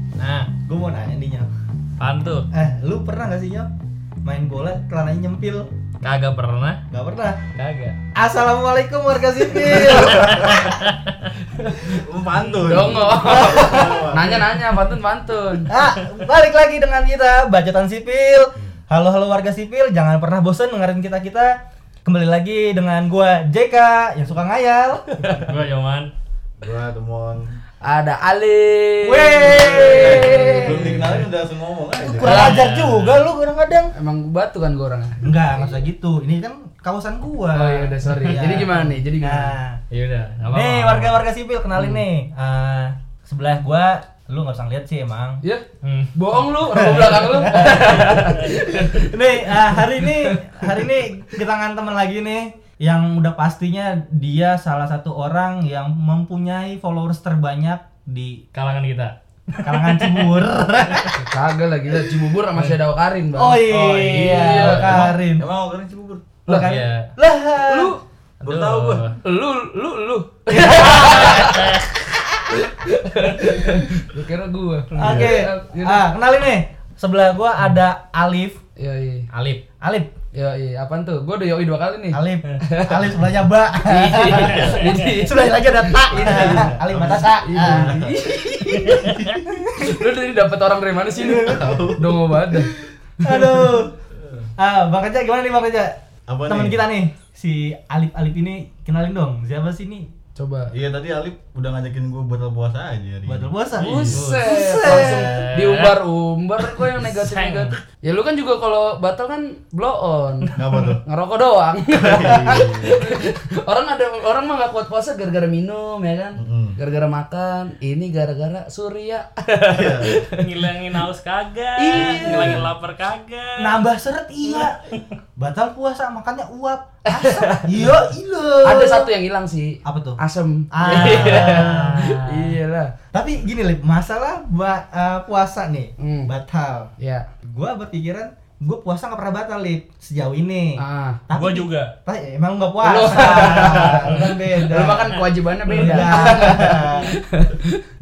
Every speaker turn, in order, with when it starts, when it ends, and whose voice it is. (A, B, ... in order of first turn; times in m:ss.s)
0:00.2-0:00.5 A
0:00.6-0:01.5 B
0:02.0-0:02.5 A
0:02.5-0:03.7 B
0:04.2-0:05.7 B
0:06.0-0:06.8 A
0:06.9-0:07.4 B
0:07.5-0:08.0 A
0:08.1-0:10.5 B
0:09.7-0:11.0 A
0:10.2-0:10.6 C
0:11.8-0:14.4 C
0:12.6-0:15.7 D
0:13.1-0:14.1 B
0:15.7-0:25.3 B
0:25.4-0:26.1 A
0:26.6-0:27.5 C
0:27.8-0:31.1 D
0:29.0-0:31.2 B
0:29.8-0:32.6 C
0:32.0-0:33.9 B
0:32.2-0:32.6 D
0:32.2-0:33.2 A
0:33.9-0:35.3 D
0:35.2-0:39.8 B
0:37.5-0:39.5 D
0:39.9-0:41.2 A
0:40.5-0:45.4 B
0:41.7-0:42.0 D
0:45.4-0:49.1 D
0:45.8-0:46.2 A
0:46.7-0:58.4 B
0:47.5-0:48.8 A
0:50.0-0:50.8 D
0:58.5-1:01.2 A
0:59.6-1:01.2 B
1:01.2-1:05.1 D
1:03.3-1:05.4 B
1:03.7-1:06.3 C
1:04.1-1:05.1 A
1:06.4-1:08.0 B
1:06.5-1:07.1 A
1:07.6-1:08.0 D
1:08.4-1:09.2 A
1:08.4-1:09.1 C
1:09.2-1:16.1 D
1:10.5-1:11.5 B
1:11.2-1:11.8 A
1:15.0-1:18.6 B
1:15.0-1:15.4 C
1:18.8-1:19.3 D
1:19.3-1:19.6 A
1:19.8-1:20.1 B
1:20.3-1:23.2 D
1:22.1-1:28.0 B
1:23.8-1:26.8 D
1:24.3-1:25.0 C
1:26.9-1:28.2 C
1:27.4-1:29.2 D
1:28.5-1:30.0 B
1:28.8-1:29.4 A
1:29.8-1:33.8 D
1:31.2-1:32.3 C
1:33.2-1:34.0 B
1:34.1-1:34.5 C
1:34.6-1:40.1 B
1:36.3-1:36.9 C
1:40.4-1:40.7 D
1:40.7-1:44.3 C
1:43.2-1:45.4 B
1:43.8-2:00.5 D
1:44.2-1:46.0 A
1:46.7-1:47.7 A
1:50.6-1:51.0 C
1:52.0-1:53.1 C
1:56.4-1:56.8 C
1:59.7-2:00.2 C
2:00.3-2:03.8 A
2:01.8-2:02.7 D
2:02.2-2:02.6 B
2:03.6-2:04.8 B
2:04.5-2:05.0 A
2:05.4-2:09.1 B
2:07.0-2:07.7 D
2:08.6-2:12.9 D
2:09.8-2:10.2 B
2:10.7-2:12.2 B
2:10.8-2:12.5 A
2:13.1-2:16.9 B
2:16.0-2:16.3 D
2:17.0-2:17.3 D
2:17.4-2:27.1 B
2:20.8-2:21.2 D
2:21.3-2:21.9 A
2:22.8-2:27.8 D
2:25.7-2:26.6 A